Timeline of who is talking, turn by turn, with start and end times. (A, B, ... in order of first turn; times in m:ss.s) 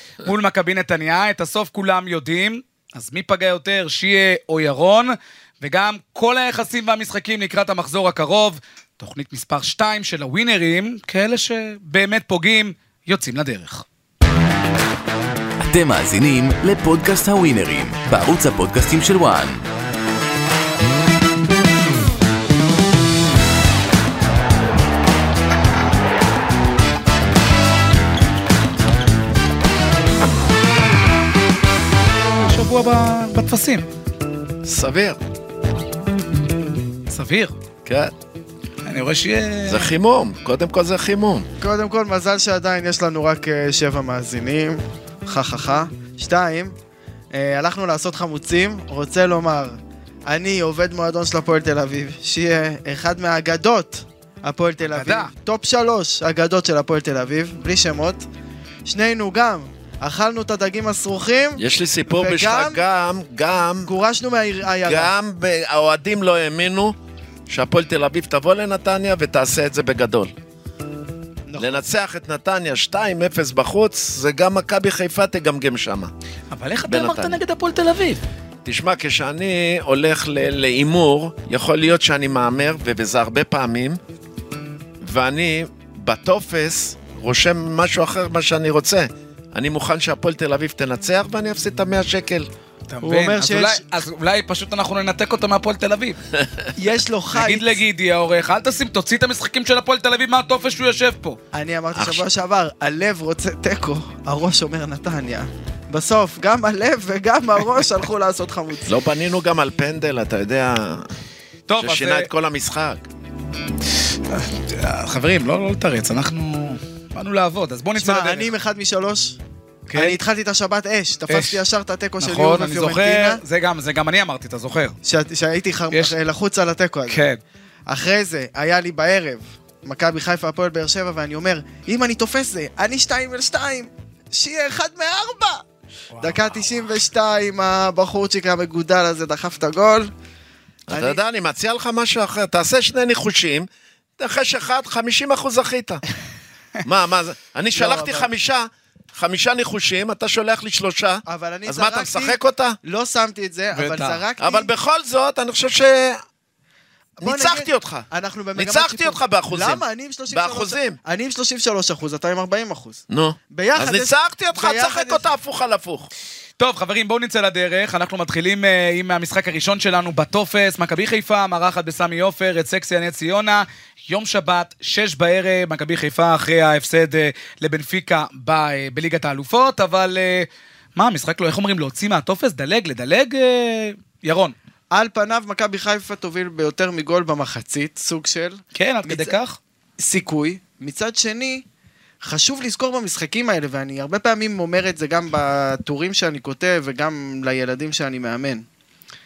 0:00.2-0:13.8 A
0:15.6-0:19.6 B
0:32.4-0:33.9 A
0:34.6-0:35.2 C
0:37.1-0:37.6 A
0:37.8-0:38.1 C
0:38.8-0:39.9 A
0:39.7-0:41.5 C
0:41.6-0:46.8 D
0:47.3-0:58.3 D
0:54.8-0:55.3 A
0:58.9-1:02.8 D
1:01.6-1:03.9 C
1:03.8-1:05.1 D
1:04.9-1:07.0 C
1:07.5-1:10.3 C
1:11.5-1:11.8 D
1:11.6-1:16.1 C
1:16.5-1:18.2 A
1:16.9-1:17.4 C
1:18.6-1:24.0 C
1:25.0-1:32.5 C
1:32.9-1:36.2 A
1:33.0-1:33.8 D
1:36.4-1:36.7 C
1:36.8-1:37.8 D
1:37.3-1:41.4 A
1:41.5-1:48.9 D
1:42.0-1:42.2 C
1:48.9-1:51.1 C
1:51.7-1:52.3 A
1:51.8-1:53.0 C
1:54.3-1:58.5 A
1:58.0-1:59.4 D
1:59.9-2:00.2 A
1:59.9-2:03.4 D
2:01.3-2:01.6 A
2:02.2-2:05.0 A
2:05.0-2:07.2 D
2:07.1-2:07.4 A
2:07.9-2:15.6 D
2:16.1-2:16.8 A
2:16.2-2:20.1 D
2:20.9-2:21.2 D
2:20.9-2:26.0 C
2:26.8-2:32.8 C
2:27.7-2:28.3 D
2:31.3-2:34.7 D
2:33.7-2:34.2 A
2:34.4-2:36.2 C
2:37.2-2:45.2 D
2:37.2-2:41.0 C
2:43.1-2:46.1 C
2:46.6-3:04.6 A
3:04.9-3:09.4 D
3:08.8-3:09.6 A
3:10.0-3:11.6 D
3:12.2-3:18.6 D